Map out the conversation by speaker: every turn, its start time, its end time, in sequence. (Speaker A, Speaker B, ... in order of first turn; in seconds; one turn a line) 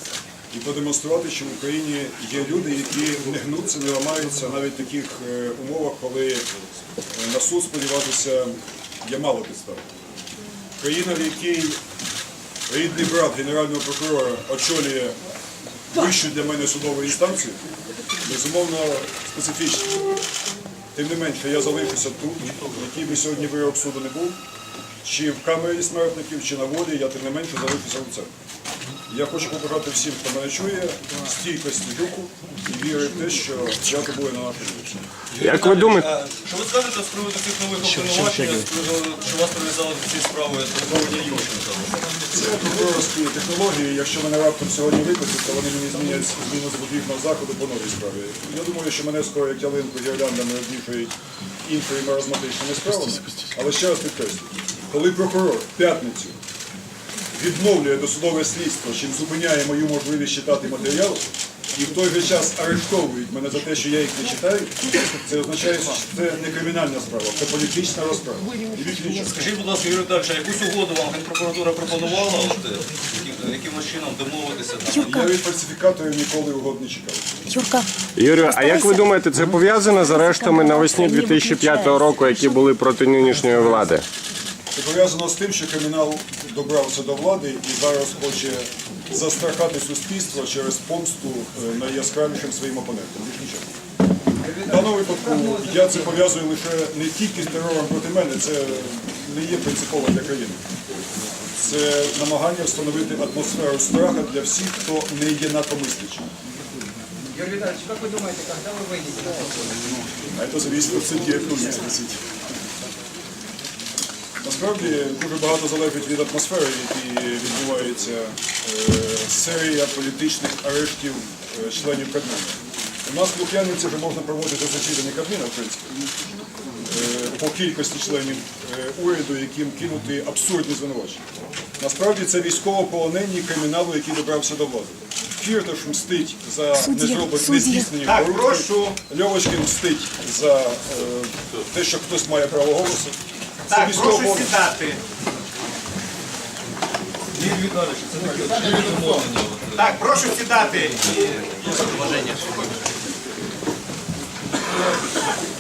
Speaker A: 0.5-6.5
Speaker A: 7.2-9.8
Speaker A: 10.8-11.8
Speaker A: 12.7-15.2
Speaker A: 15.9-17.6
Speaker A: 18.2-19.9
Speaker A: 20.9-24.4
Speaker A: 25.0-28.3
Speaker A: 29.1-35.0
Speaker B: 35.3-41.9
Speaker C: 35.4-36.1
Speaker A: 42.3-51.1
Speaker A: 51.6-56.4
Speaker A: 57.3-69.5
Speaker B: 69.3-75.2
Speaker D: 74.9-75.3
Speaker A: 75.0-77.2
Speaker D: 77.5-77.9
Speaker C: 78.2-84.0
Speaker D: 80.4-81.9
Speaker A: 84.7-93.7
Speaker E: 94.4-96.0
Speaker A: 94.6-100.6
Speaker A: 101.6-106.3
Speaker E: 107.3-109.5
Speaker A: 110.3-112.2
Speaker A: 114.4-125.9
Speaker A: 126.9-131.2
Speaker A: 131.8-143.2
Speaker D: 136.8-137.9
Speaker F: 138.1-138.9
Speaker A: 143.7-144.6
Speaker F: 143.7-145.0
Speaker B: 147.3-150.0
Speaker F: 149.8-151.4
Speaker B: 150.8-152.3
Speaker F: 152.0-152.4